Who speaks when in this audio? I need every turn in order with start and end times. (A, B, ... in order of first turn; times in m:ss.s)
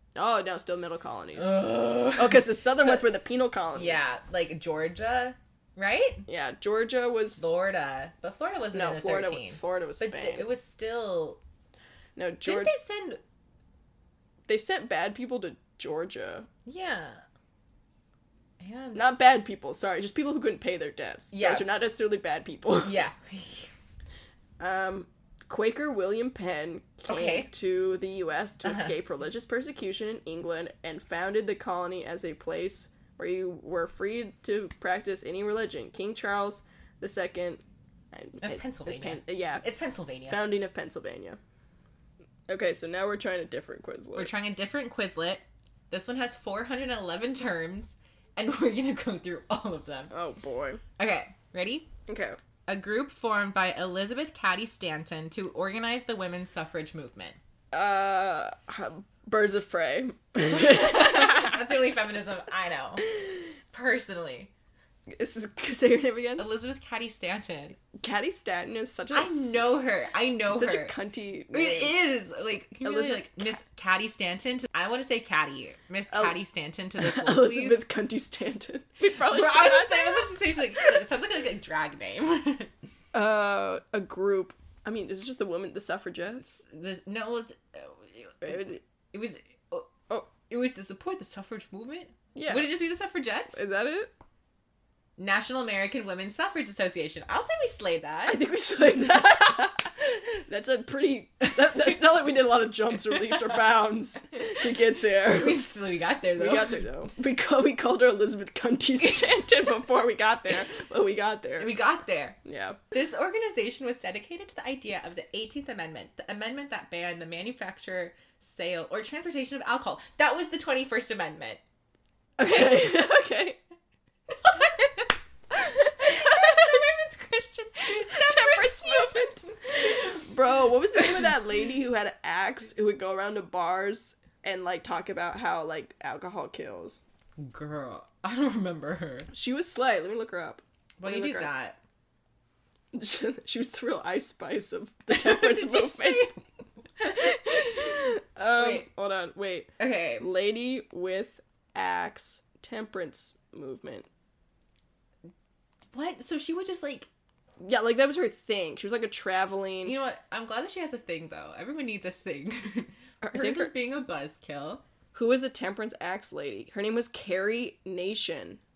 0:00.2-0:04.0 A
0:01.4-0:03.0 B
0:03.8-0:06.2 B
0:06.3-0:07.5 A
0:07.4-0:11.4 B
0:08.7-0:10.5 A
0:12.2-0:12.7 A
0:12.4-0:13.2 B
0:14.5-0:16.5 A
0:16.7-0:17.2 B
0:18.6-0:19.1 B
0:19.0-0:23.0 A
0:21.3-0:21.7 B
0:22.8-0:23.7 B
0:24.6-0:39.7 A
0:27.1-0:27.5 B
0:28.6-0:28.9 B
0:38.4-0:40.5 B
0:40.3-0:41.4 A
0:42.5-0:44.3 A
0:44.2-0:50.1 B
0:50.1-0:50.8 A
0:51.0-0:51.9 B
0:52.1-0:52.4 A
0:52.7-0:57.4 B
0:57.7-1:01.7 A
1:00.5-1:03.0 B
1:03.0-1:03.4 A
1:03.7-1:04.5 B
1:05.1-1:06.5 A
1:06.4-1:07.8 B
1:08.0-1:09.7 A
1:09.1-1:11.0 B
1:10.5-1:12.0 A
1:11.5-1:17.9 B
1:12.8-1:13.6 A
1:16.1-1:16.4 A
1:17.0-1:21.0 A
1:19.1-1:22.7 B
1:23.1-1:26.6 A
1:26.6-1:33.6 B
1:28.4-1:28.8 A
1:32.4-1:32.7 A
1:33.5-1:34.1 A
1:35.2-1:38.4 B
1:38.3-1:45.7 A
1:43.1-1:43.6 B
1:45.3-1:46.8 B
1:46.4-1:51.8 A
1:51.6-1:52.4 B
1:52.4-1:52.8 A
1:52.9-2:01.6 B
2:02.4-2:03.6 A
2:04.4-2:05.1 B
2:05.5-2:06.8 A
2:06.0-2:10.2 B
2:08.1-2:17.0 A
2:11.0-2:11.3 B
2:17.4-2:19.3 B
2:19.3-2:21.5 A
2:21.0-2:21.8 B
2:22.9-2:26.3 A
2:25.1-2:26.4 B
2:27.0-2:27.7 B
2:27.1-2:34.1 A
2:28.4-2:28.9 B
2:29.8-2:30.3 B
2:35.9-2:37.1 B
2:37.6-2:40.0 A
2:39.8-2:44.8 B
2:43.2-2:43.7 A
2:45.1-2:48.6 A